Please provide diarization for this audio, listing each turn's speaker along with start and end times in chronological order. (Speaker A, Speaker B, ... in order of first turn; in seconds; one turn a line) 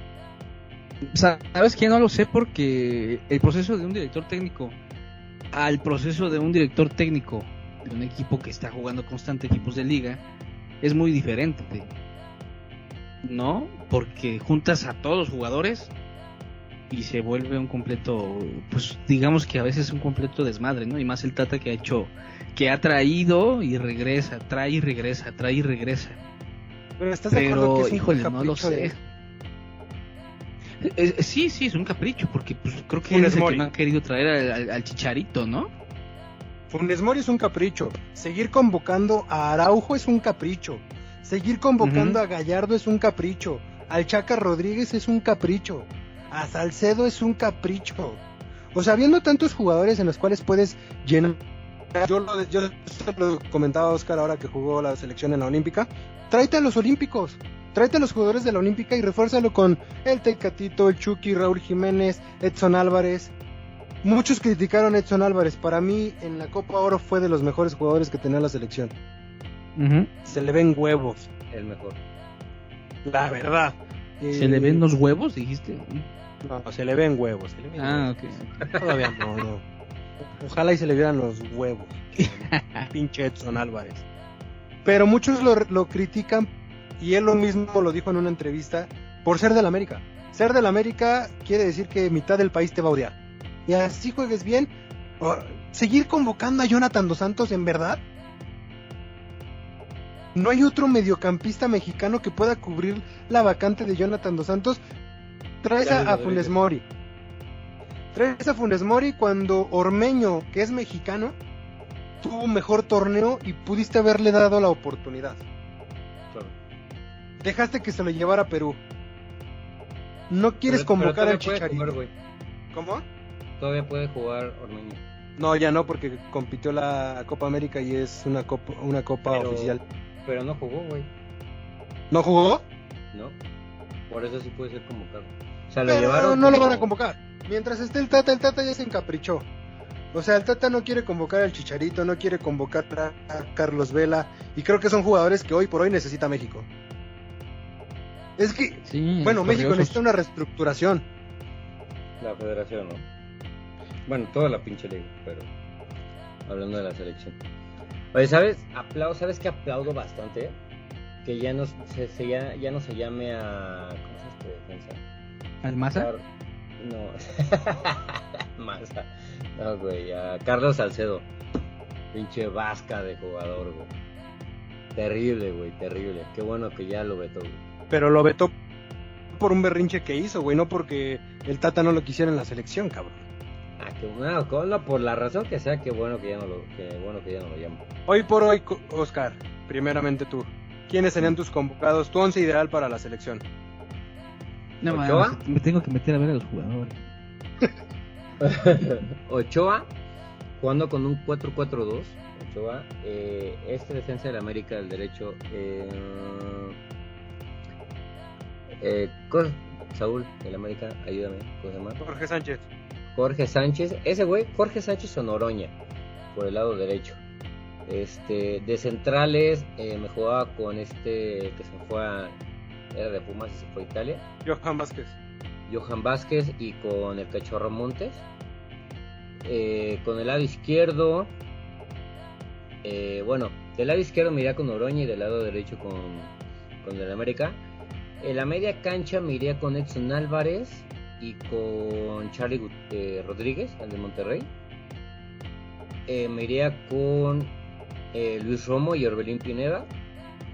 Speaker A: 1.1-4.8
Speaker A: 5.5-10.2
Speaker A: 10.8-11.9
Speaker A: 13.2-15.9
Speaker A: 16.9-26.2
Speaker B: 27.0-29.0
Speaker A: 27.3-29.0
Speaker A: 30.8-35.7
Speaker B: 33.0-33.7
Speaker B: 36.7-48.2
Speaker A: 41.8-42.2
Speaker B: 48.7-51.4
Speaker B: 51.9-63.3
Speaker B: 64.0-68.9
Speaker A: 69.8-70.1
Speaker B: 70.2-71.3
Speaker C: 71.5-72.0
Speaker B: 73.0-74.8
Speaker A: 74.3-76.1
Speaker B: 76.4-78.2
Speaker A: 77.8-78.7
Speaker B: 78.8-79.7
Speaker B: 80.4-84.0
Speaker A: 82.2-82.9
Speaker B: 84.8-98.0
Speaker B: 100.3-104.8
Speaker B: 105.6-106.8
Speaker C: 105.8-106.6
Speaker B: 108.1-111.4
Speaker B: 112.2-115.4
Speaker B: 117.4-118.8
Speaker B: 120.3-122.0
Speaker C: 120.7-122.1
Speaker B: 122.7-123.0
Speaker C: 123.6-125.0
Speaker B: 125.4-129.8
Speaker C: 129.3-131.1
Speaker B: 132.1-132.7
Speaker C: 133.1-133.4
Speaker C: 134.1-136.9
Speaker B: 135.9-139.5
Speaker B: 140.1-146.7
Speaker B: 148.4-151.1
Speaker A: 148.8-150.0
Speaker C: 152.2-153.1
Speaker C: 154.1-155.5
Speaker C: 156.5-157.4
Speaker C: 158.1-160.6
Speaker C: 161.2-165.0
Speaker A: 165.6-166.1
Speaker C: 165.9-166.2
Speaker C: 166.8-171.3
Speaker C: 172.1-173.9
Speaker C: 174.9-177.6
Speaker B: 177.9-178.5
Speaker B: 179.3-183.2
Speaker C: 183.8-187.8
Speaker B: 188.1-193.4
Speaker A: 194.8-197.0
Speaker C: 194.9-195.4
Speaker C: 198.4-199.9
Speaker C: 200.6-206.8
Speaker C: 208.8-212.0
Speaker B: 212.0-212.7
Speaker C: 213.1-215.8
Speaker C: 216.3-217.2
Speaker C: 217.9-222.3
Speaker C: 222.9-224.2
Speaker B: 224.4-225.2
Speaker C: 225.7-228.2
Speaker C: 229.4-231.3
Speaker C: 232.8-237.6
Speaker C: 238.2-244.5
Speaker C: 246.1-247.6
Speaker C: 248.1-249.9